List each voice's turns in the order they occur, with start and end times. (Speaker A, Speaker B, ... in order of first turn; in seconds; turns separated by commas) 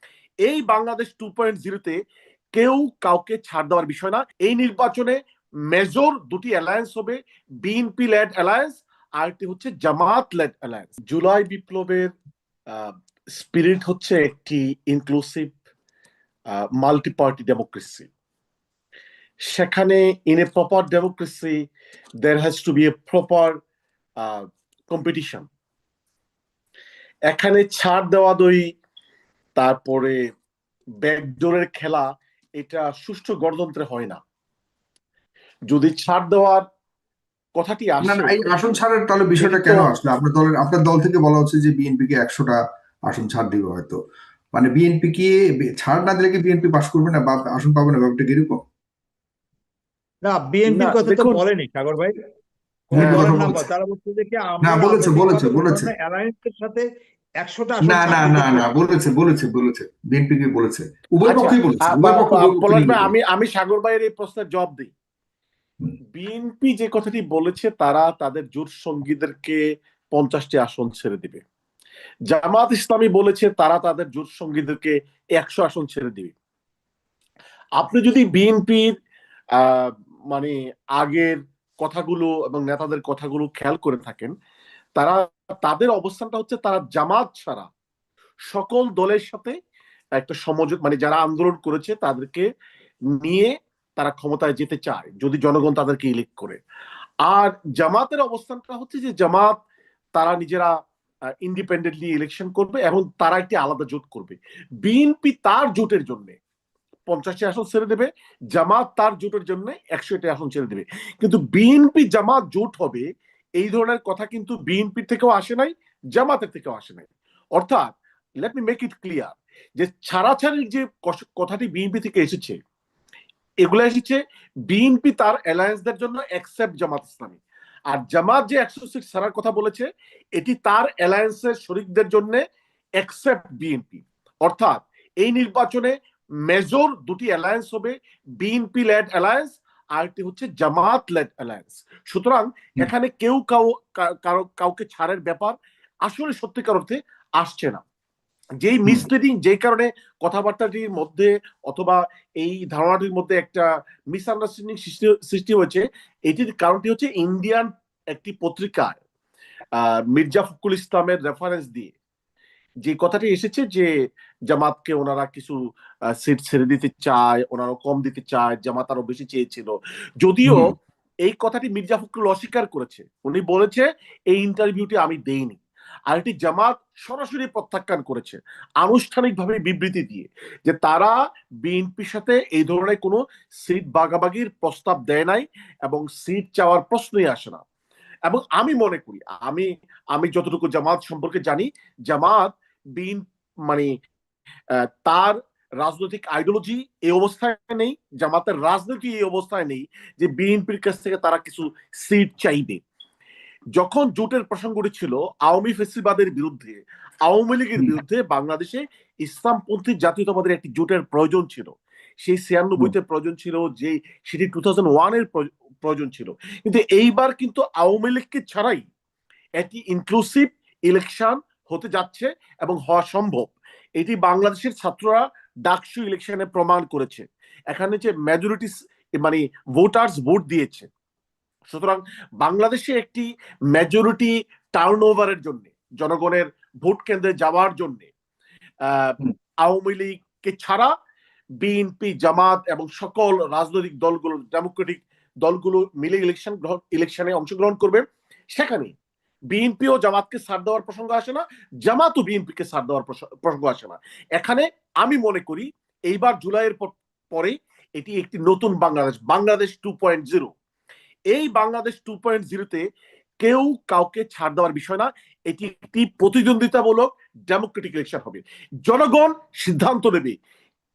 Speaker A: 0.4-2.0, Speaker A: 2.5-5.2, Speaker A: 5.7-12.1, Speaker A: 12.7-15.5, Speaker A: 16.5-18.1, Speaker A: 19.5-21.6, Speaker A: 22.2-23.6, Speaker A: 24.2-25.5, Speaker A: 27.3-28.6, Speaker A: 29.6-30.2, Speaker A: 31.0-32.1, Speaker A: 32.6-34.2, Speaker A: 35.7-36.6, Speaker A: 37.6-38.6, Speaker B: 38.0-44.0, Speaker A: 39.4-39.9, Speaker B: 44.5-48.6, Speaker C: 50.2-52.1, Speaker A: 50.7-51.4, Speaker C: 52.9-56.9, Speaker A: 53.0-53.3, Speaker B: 53.0-53.6, Speaker B: 54.6-55.9, Speaker C: 57.4-58.7, Speaker B: 57.8-63.1, Speaker A: 61.3-64.9, Speaker A: 66.2-69.6, Speaker A: 70.1-71.4, Speaker A: 72.3-76.3, Speaker A: 77.8-78.9, Speaker A: 79.6-84.3, Speaker A: 85.0-87.7, Speaker A: 88.5-89.6, Speaker A: 90.2-92.5, Speaker A: 93.2-96.6, Speaker A: 97.2-99.6, Speaker A: 100.2-100.7, Speaker A: 101.4-106.4, Speaker A: 107.1-113.0, Speaker A: 113.6-117.9, Speaker A: 118.4-122.6, Speaker A: 123.7-132.4, Speaker A: 133.0-135.9, Speaker A: 136.5-147.8, Speaker A: 148.6-159.0, Speaker A: 159.8-161.9, Speaker A: 162.8-163.9, Speaker A: 164.5-165.6, Speaker A: 166.2-170.7, Speaker A: 171.3-187.6, Speaker A: 188.3-193.9, Speaker A: 195.1-202.8, Speaker A: 203.8-218.9, Speaker A: 219.6-230.9, Speaker A: 231.7-238.1, Speaker A: 238.8-240.9, Speaker A: 241.6-248.9, Speaker A: 249.5-260.5, Speaker A: 261.3-262.8, Speaker A: 263.4-270.4